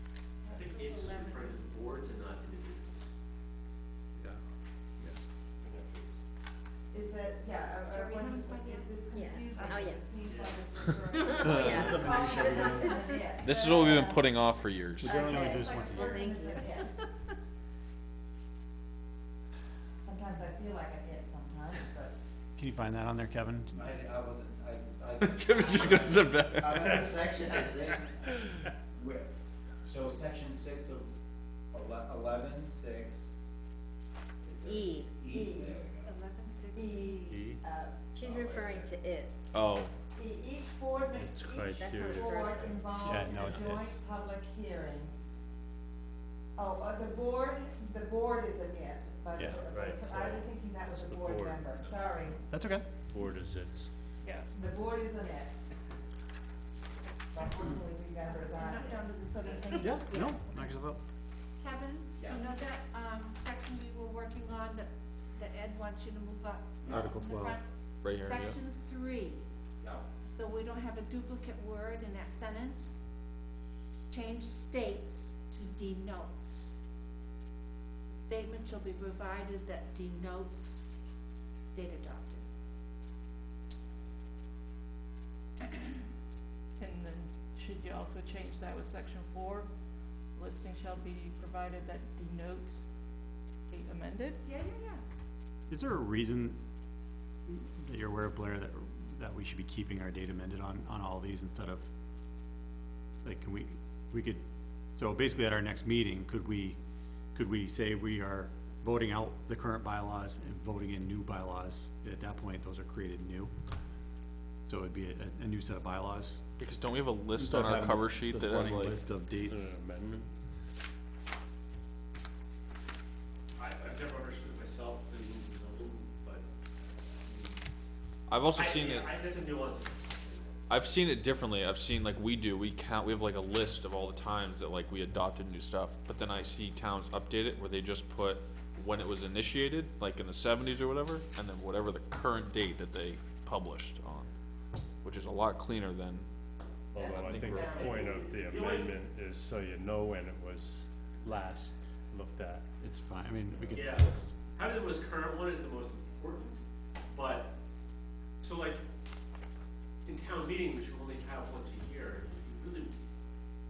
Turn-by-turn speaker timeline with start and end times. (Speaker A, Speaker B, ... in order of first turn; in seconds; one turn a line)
Speaker A: 0.4-1.7
Speaker B: 0.5-3.1
Speaker B: 5.6-6.2
Speaker C: 6.9-14.3
Speaker A: 7.9-8.9
Speaker D: 9.1-10.0
Speaker A: 9.6-9.9
Speaker B: 10.2-10.7
Speaker D: 11.1-13.6
Speaker E: 11.4-13.0
Speaker F: 12.0-12.3
Speaker G: 13.4-15.2
Speaker E: 15.0-16.2
Speaker D: 15.0-16.9
Speaker C: 15.2-16.9
Speaker C: 20.0-22.1
Speaker E: 22.6-23.8
Speaker H: 23.7-28.3
Speaker G: 25.2-27.0
Speaker F: 26.6-27.9
Speaker H: 28.9-29.3
Speaker H: 29.8-31.1
Speaker H: 31.7-33.3
Speaker H: 34.4-36.1
Speaker D: 34.6-35.2
Speaker C: 35.2-35.9
Speaker A: 36.0-37.5
Speaker C: 36.7-38.1
Speaker F: 37.3-37.6
Speaker D: 38.1-39.5
Speaker H: 38.2-38.8
Speaker G: 39.5-39.9
Speaker C: 40.1-45.1
Speaker F: 41.1-42.5
Speaker D: 41.8-43.2
Speaker E: 43.0-44.0
Speaker G: 43.3-43.6
Speaker C: 46.5-52.4
Speaker E: 49.4-49.6
Speaker F: 49.7-51.6
Speaker E: 52.5-52.9
Speaker F: 53.1-53.9
Speaker I: 54.2-54.5
Speaker C: 54.5-55.5
Speaker C: 57.3-59.3
Speaker A: 58.2-60.5
Speaker E: 59.8-61.0
Speaker A: 61.6-69.4
Speaker E: 66.8-67.6
Speaker G: 68.0-68.6
Speaker A: 70.2-73.0
Speaker A: 74.1-76.8
Speaker A: 78.1-80.9
Speaker A: 81.7-82.4
Speaker I: 86.8-89.7
Speaker I: 90.3-92.8
Speaker I: 93.7-94.4
Speaker A: 94.4-95.0
Speaker E: 95.7-96.6
Speaker E: 97.5-101.9
Speaker E: 103.2-104.4
Speaker E: 105.0-106.8
Speaker E: 107.3-113.5
Speaker E: 114.7-116.4
Speaker G: 116.6-119.0
Speaker E: 117.3-119.8
Speaker F: 119.4-120.3
Speaker B: 123.6-126.5
Speaker B: 127.2-127.6
Speaker G: 128.3-129.1
Speaker B: 128.5-130.6
Speaker G: 130.7-144.3
Speaker G: 145.0-146.3
Speaker F: 146.9-152.6
Speaker B: 146.9-149.0
Speaker G: 147.1-148.1
Speaker E: 152.8-154.2
Speaker B: 153.7-157.5
Speaker B: 158.4-158.8
Speaker B: 160.1-163.1